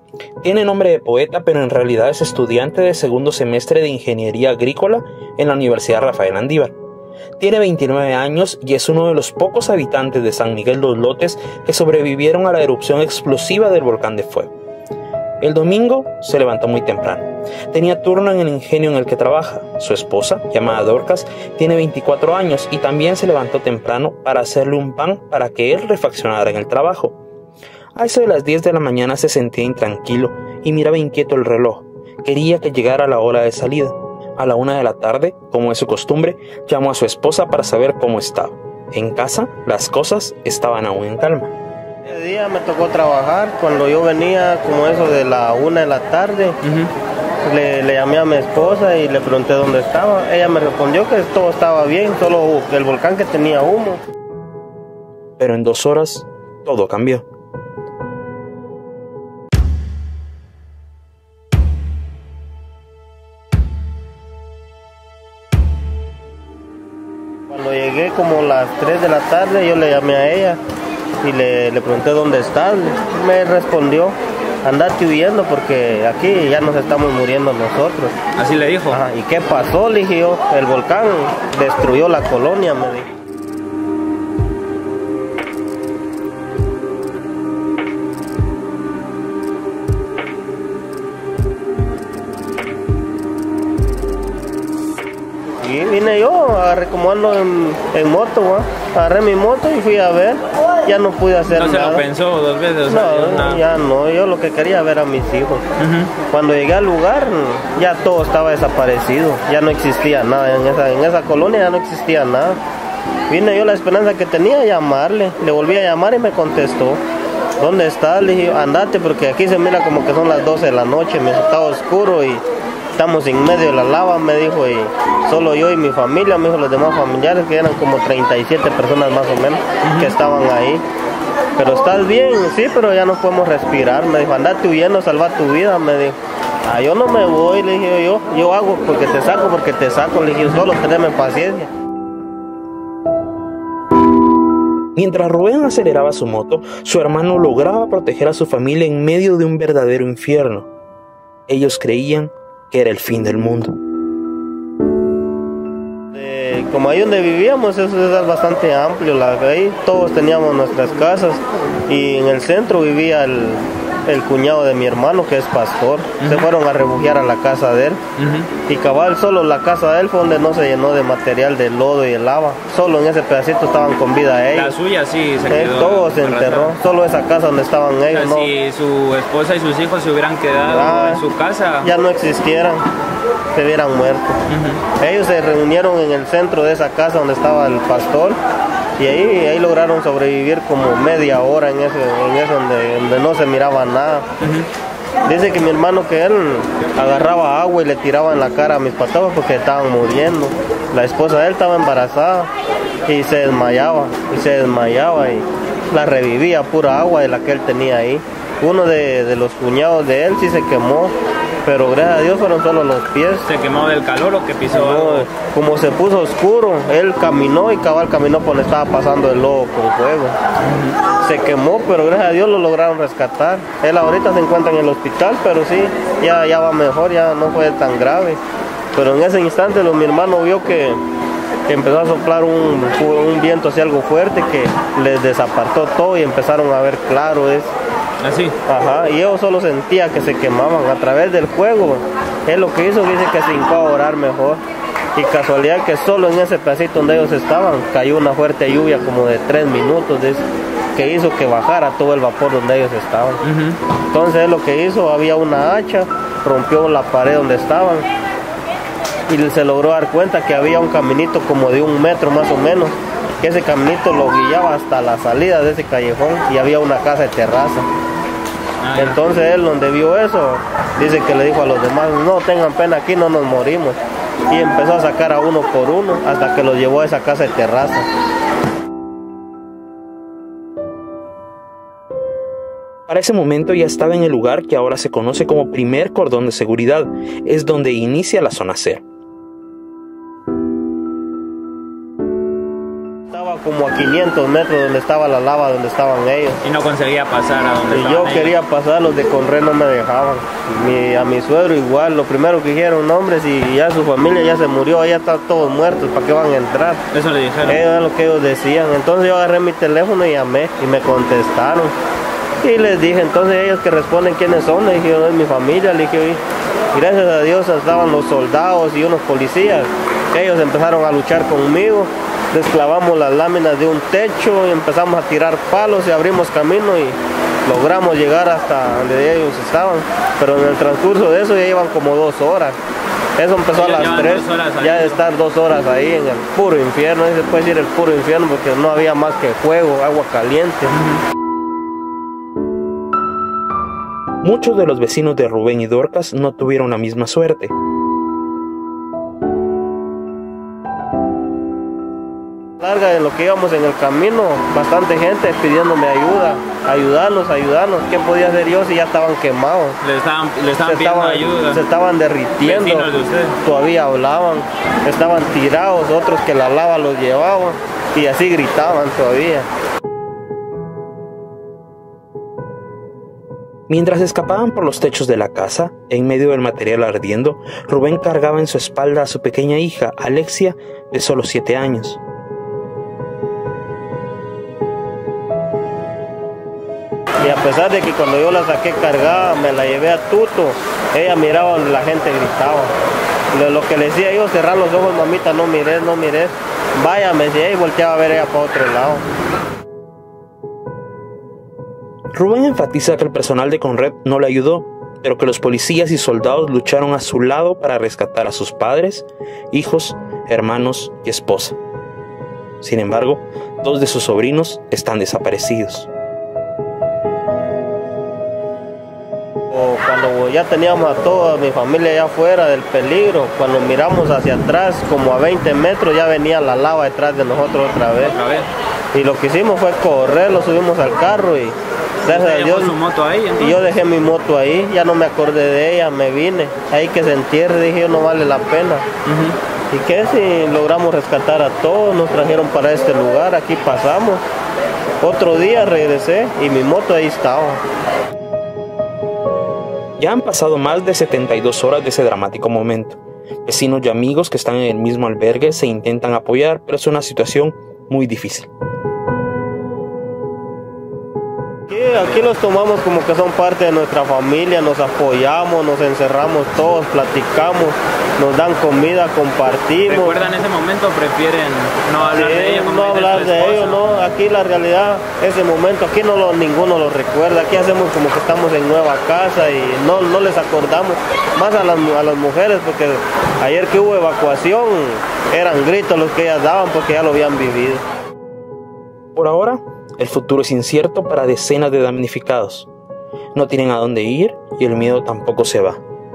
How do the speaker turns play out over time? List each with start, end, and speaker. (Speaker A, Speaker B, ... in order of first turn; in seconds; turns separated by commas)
Speaker A: 0.4-6.7, Speaker A: 7.4-14.5, Speaker A: 15.4-27.2, Speaker A: 28.0-41.5, Speaker B: 42.0-46.6, Speaker C: 46.6-46.9, Speaker B: 47.4-54.0, Speaker A: 55.4-57.2, Speaker B: 67.5-70.6, Speaker B: 71.2-78.2, Speaker C: 78.4-79.0, Speaker B: 78.9-83.1, Speaker B: 95.6-102.0, Speaker C: 101.5-103.6, Speaker B: 102.9-105.6, Speaker C: 105.8-106.1, Speaker B: 106.3-112.6, Speaker B: 113.3-117.0, Speaker B: 117.6-122.4, Speaker B: 123.0-130.8, Speaker C: 129.8-130.1, Speaker B: 131.6-141.7, Speaker A: 144.9-150.7, Speaker A: 151.5-153.8, Speaker B: 156.1-168.0, Speaker C: 166.2-166.5, Speaker C: 168.2-168.5, Speaker B: 168.7-174.8, Speaker C: 174.5-176.7, Speaker B: 175.5-178.5, Speaker C: 178.1-181.9, Speaker B: 180.7-181.2, Speaker B: 181.8-182.9, Speaker B: 183.5-184.4, Speaker C: 184.5-184.8, Speaker B: 185.0-188.4, Speaker B: 189.0-194.3, Speaker C: 194.4-194.7, Speaker B: 195.2-202.5, Speaker B: 203.1-213.5, Speaker C: 213.4-215.3, Speaker B: 214.7-220.4, Speaker C: 220.6-221.0, Speaker B: 221.2-228.4, Speaker B: 228.9-231.0, Speaker B: 231.7-237.7, Speaker C: 238.2-238.5, Speaker B: 238.7-244.6, Speaker B: 245.2-250.4, Speaker B: 250.9-253.4, Speaker C: 253.4-253.8, Speaker B: 254.1-258.1, Speaker B: 259.3-267.9, Speaker C: 268.8-269.2, Speaker B: 269.0-278.1, Speaker A: 283.1-289.0, Speaker B: 293.3-296.6, Speaker C: 296.6-298.5, Speaker B: 297.9-307.0, Speaker C: 307.1-307.8, Speaker B: 307.7-311.9, Speaker B: 312.6-316.4, Speaker B: 316.9-332.8, Speaker B: 333.4-340.9, Speaker C: 333.8-335.2, Speaker C: 340.9-341.2, Speaker A: 344.4-347.7, Speaker B: 352.8-360.0, Speaker C: 360.0-361.8, Speaker B: 360.8-369.7, Speaker C: 362.6-363.6, Speaker A: 373.9-382.2, Speaker B: 387.4-392.9, Speaker B: 393.5-399.2, Speaker A: 402.3-411.8, Speaker A: 412.8-416.1, Speaker B: 419.7-428.4, Speaker C: 428.3-428.7, Speaker B: 429.1-433.0, Speaker C: 432.3-433.8, Speaker B: 433.6-439.1, Speaker C: 439.2-439.6, Speaker B: 439.9-444.4, Speaker B: 445.2-447.8, Speaker A: 450.2-458.7, Speaker B: 461.9-470.4, Speaker C: 470.1-474.0, Speaker B: 472.3-488.0, Speaker A: 489.4-492.9, Speaker A: 493.5-496.0